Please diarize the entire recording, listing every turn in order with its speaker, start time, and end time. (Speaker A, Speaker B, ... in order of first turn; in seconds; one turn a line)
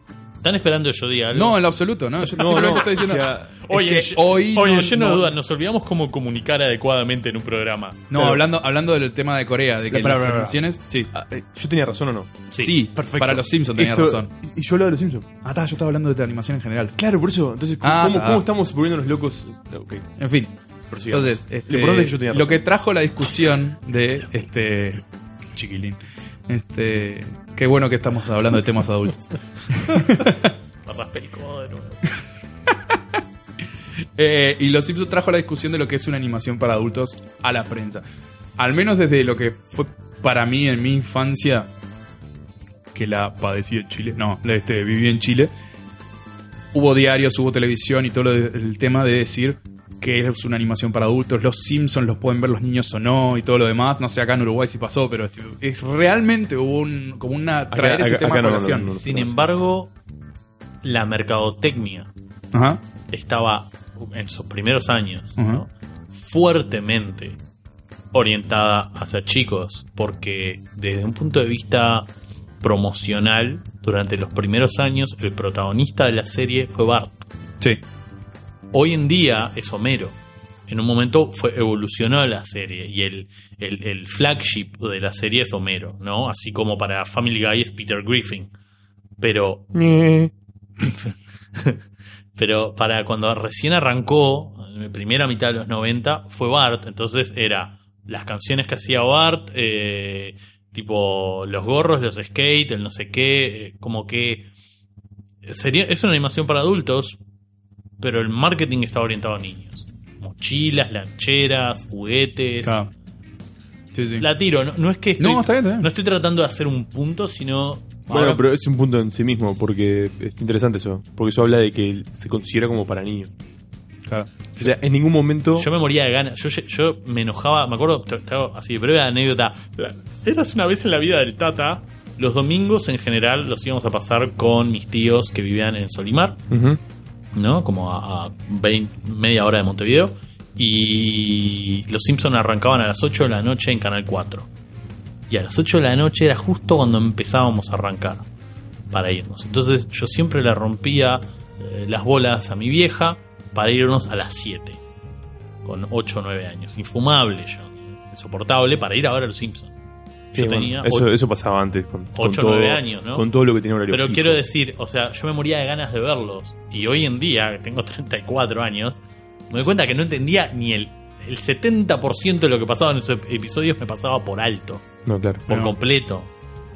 Speaker A: 0.4-1.6
Speaker B: 1.3-5.3
Speaker C: 2.2-3.7
Speaker A: 2.4-8.1
Speaker B: 8.1-11.1
Speaker C: 8.1-8.4
Speaker C: 9.9-10.6
Speaker C: 11.1-12.3
Speaker A: 12.5-13.4
Speaker B: 12.6-14.3
Speaker C: 13.1-15.3
Speaker B: 15.4-17.0
Speaker C: 17.0-20.1
Speaker B: 17.8-18.5
Speaker B: 20.2-20.5
Speaker C: 20.9-22.6
Speaker B: 21.1-30.5
Speaker A: 30.9-32.1
Speaker B: 34.2-38.0
Speaker B: 38.6-41.7
Speaker B: 42.9-45.5
Speaker B: 46.7-59.0
Speaker C: 57.7-59.5
Speaker A: 58.9-59.9
Speaker A: 60.8-62.1
Speaker B: 62.5-62.8
Speaker A: 63.1-67.4
Speaker B: 65.4-65.6
Speaker A: 68.1-72.1
Speaker A: 72.6-77.2
Speaker A: 78.7-88.5
Speaker A: 89.2-89.7
Speaker C: 89.7-90.3
Speaker A: 90.8-91.8
Speaker A: 92.4-104.5
Speaker A: 105.4-107.2
Speaker A: 108.0-112.8
Speaker B: 112.6-112.9
Speaker B: 113.9-114.3
Speaker A: 114.2-118.4
Speaker B: 115.2-115.9
Speaker C: 118.1-123.3
Speaker B: 124.1-124.7
Speaker C: 124.6-125.7
Speaker A: 125.6-136.4
Speaker C: 136.5-136.8
Speaker A: 137.3-144.5
Speaker A: 145.3-148.3
Speaker A: 148.9-154.8
Speaker A: 155.7-159.7
Speaker A: 160.3-161.1
Speaker C: 160.3-164.4
Speaker A: 162.2-163.2
Speaker A: 163.9-169.0
Speaker A: 169.5-174.8
Speaker C: 175.1-175.5
Speaker A: 175.5-176.3
Speaker B: 175.5-175.7